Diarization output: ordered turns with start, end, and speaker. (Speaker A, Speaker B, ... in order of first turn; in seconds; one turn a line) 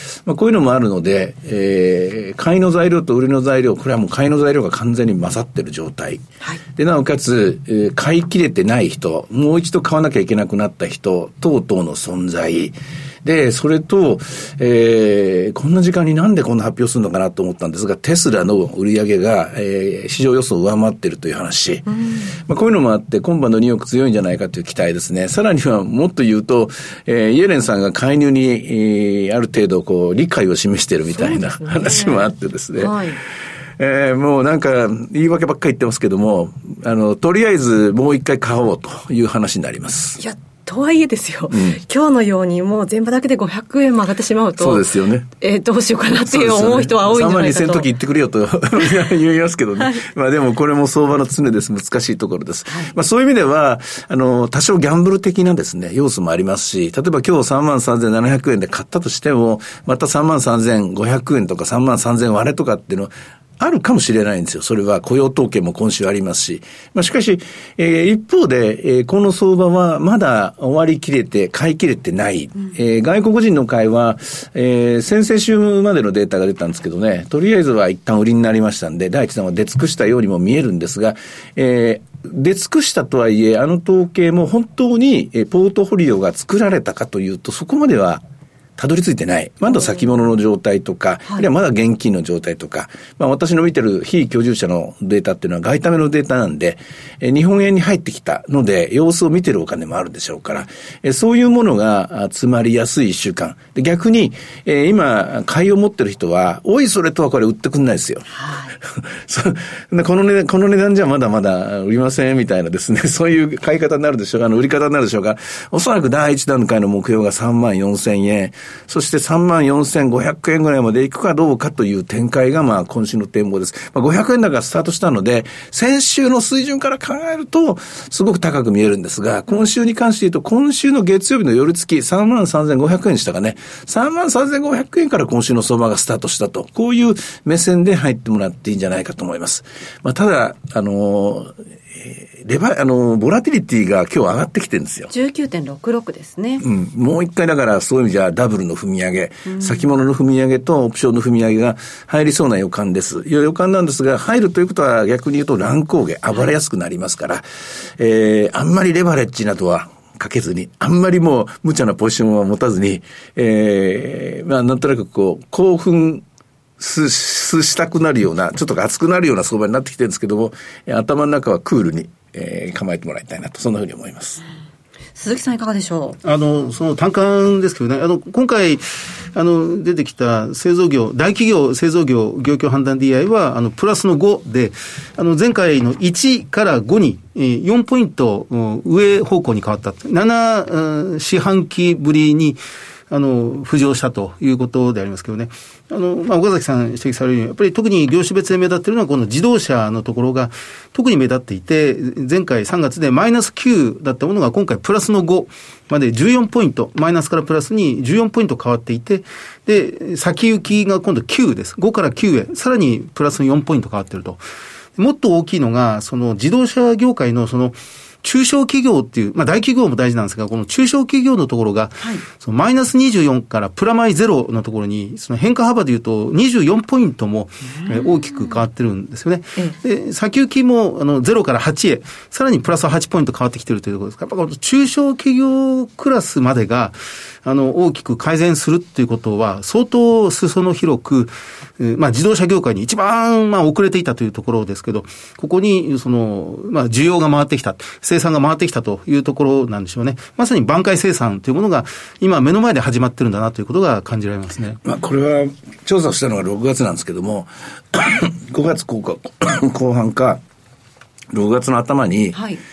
Speaker A: 0.2-33.0
Speaker B: 21.9-22.3
Speaker B: 31.2-33.2
Speaker A: 33.8-40.2
Speaker B: 40.2-47.9
Speaker A: 41.5-41.8
Speaker A: 44.6-45.2
Speaker A: 46.1-88.2
Speaker A: 88.8-108.3
Speaker B: 108.3-108.7
Speaker A: 108.8-145.1
Speaker B: 145.1-146.6
Speaker A: 146.6-157.4
Speaker B: 149.5-149.8
Speaker A: 158.0-166.2
Speaker A: 166.8-174.4
Speaker B: 175.2-176.2
Speaker C: 176.2-214.4
Speaker C: 215.0-254.8
Speaker A: 254.8-260.4
Speaker A: 261.3-262.4
Speaker B: 262.3-262.6